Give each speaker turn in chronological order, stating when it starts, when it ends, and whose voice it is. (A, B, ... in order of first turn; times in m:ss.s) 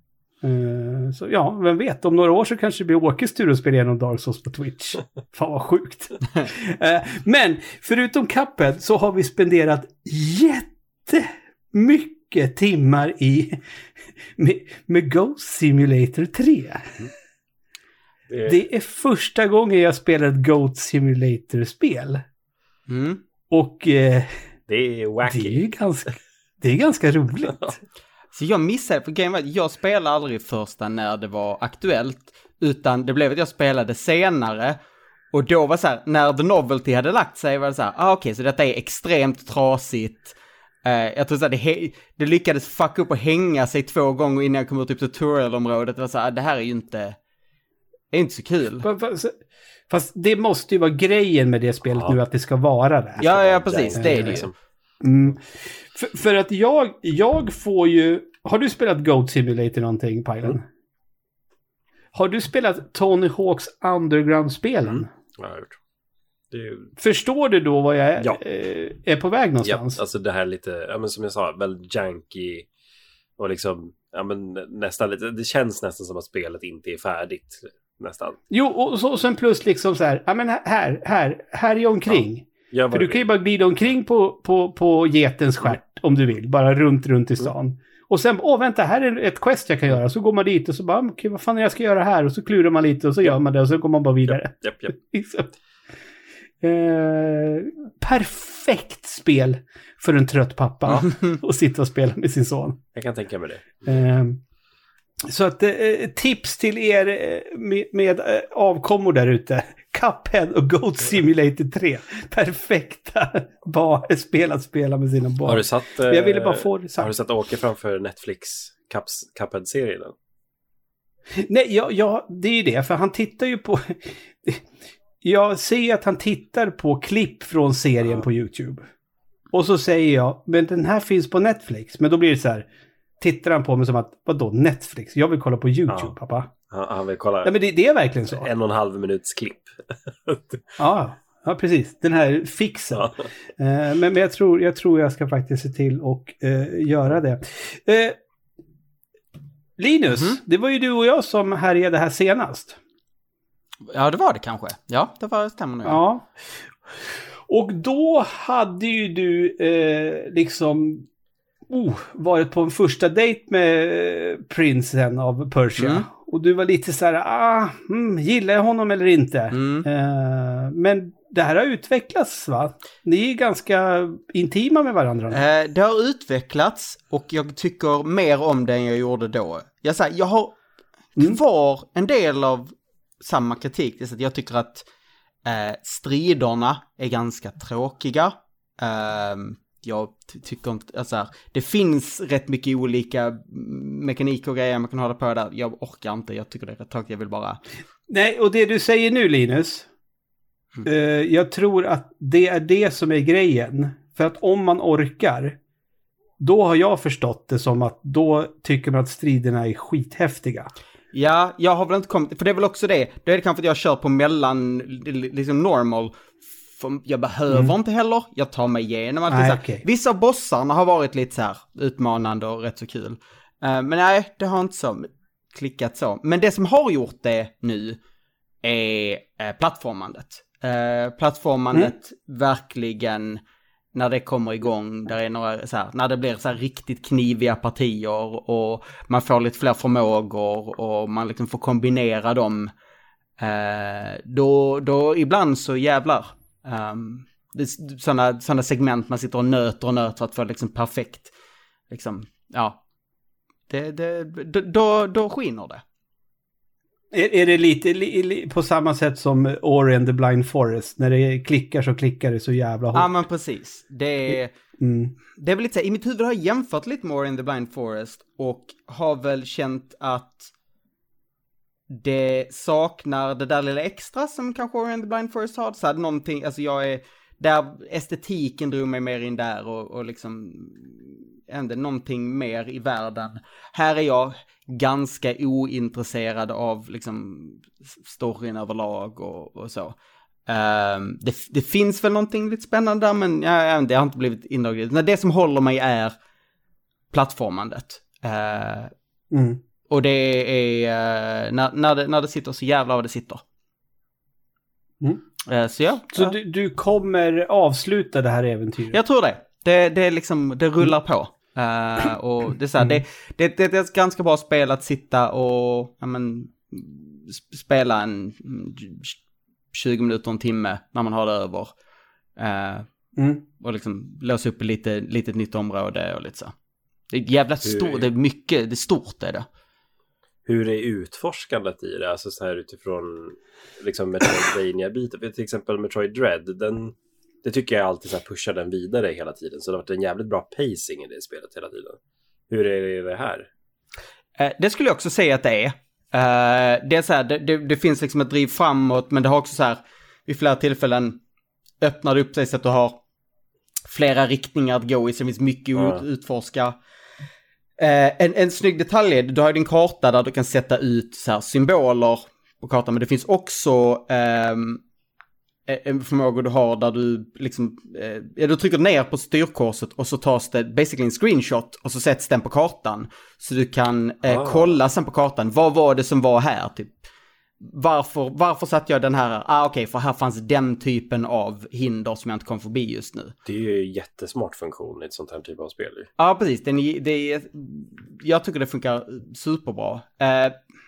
0:00.4-0:13.6 A
0:14.4-0:17.0 A
0:18.3-0:18.6 B
0:18.4-0:22.2 A
0:22.9-0:23.2 C
0:23.5-0:24.3 A
0:24.7-0:25.6 B
0:25.2-0:27.7 A
0:28.3-0:34.8 C
0:35.3-0:47.2 C
0:48.1-0:48.9 C
0:48.8-0:49.4 A
0:49.9-0:53.3 A
0:51.9-0:52.2 B
0:53.2-0:54.5 B
0:53.2-0:54.5 C
0:54.0-0:54.4 A
0:55.0-1:00.6 A
1:02.1-1:05.1 A
1:04.9-1:05.8 B
1:06.5-1:06.9 B
1:07.0-1:10.0 A
1:09.6-1:12.7 B
1:13.4-1:18.4 B
1:18.5-1:35.5 A
1:22.1-1:23.2 B
1:34.2-1:34.9 B
1:36.6-1:42.8 A
1:42.9-1:44.0 B
1:43.8-1:44.4 A
1:45.2-1:57.1 A
1:55.4-2:00.1 B
2:01.4-2:04.6 A
2:05.2-2:08.8 A
2:09.5-2:12.7 A
2:13.2-2:16.5 A
2:15.9-2:16.1 B
2:16.7-2:17.5 B
2:17.4-2:18.5 A
2:18.3-2:20.6 B
2:20.8-2:28.2 A
2:22.9-2:23.2 B
2:29.8-2:32.8 A
2:33.9-2:36.0 C
2:35.8-2:36.3 A
2:37.5-2:41.0 A
2:41.7-2:55.4 A
2:45.8-2:46.0 C
2:49.5-2:49.9 C
2:55.3-3:00.5 C
3:01.2-3:04.8 C
3:05.4-3:17.6 C
3:18.1-3:19.9 A
3:20.8-3:25.6 A
3:26.4-3:30.7 A
3:31.1-3:36.1 C
3:36.7-3:48.0 C
3:39.3-3:39.8 A
3:48.6-3:53.4 C
3:53.9-4:02.7 C
4:03.4-4:11.3 C
4:11.9-4:12.8 C
4:13.7-4:15.8 C
4:17.1-4:23.1 A
4:22.9-4:24.5 C
4:24.3-4:25.1 A
4:25.4-4:30.5 C
4:31.9-4:50.0 C
4:50.5-4:56.1 C
4:57.1-4:58.9 C
4:59.3-4:59.6 A
4:59.9-5:03.4 C
5:05.4-5:06.3 C
5:06.1-5:09.0 A
5:08.9-5:19.2 C
5:19.7-5:21.7 C
5:22.4-5:22.9 C
5:23.2-5:23.4 A
5:23.6-5:26.5 C
5:27.1-5:29.4 C
5:27.7-5:28.0 B
5:30.4-5:42.0 B
5:42.5-5:43.5 B
5:44.4-5:51.2 C
5:51.8-5:53.0 C
5:53.9-5:56.8 C
5:55.8-5:56.0 B
5:57.8-6:04.8 C
6:05.7-6:17.0 C
6:14.2-6:14.8 B
6:17.6-6:23.3 C
6:23.4-6:26.1 B
6:26.2-6:30.6 C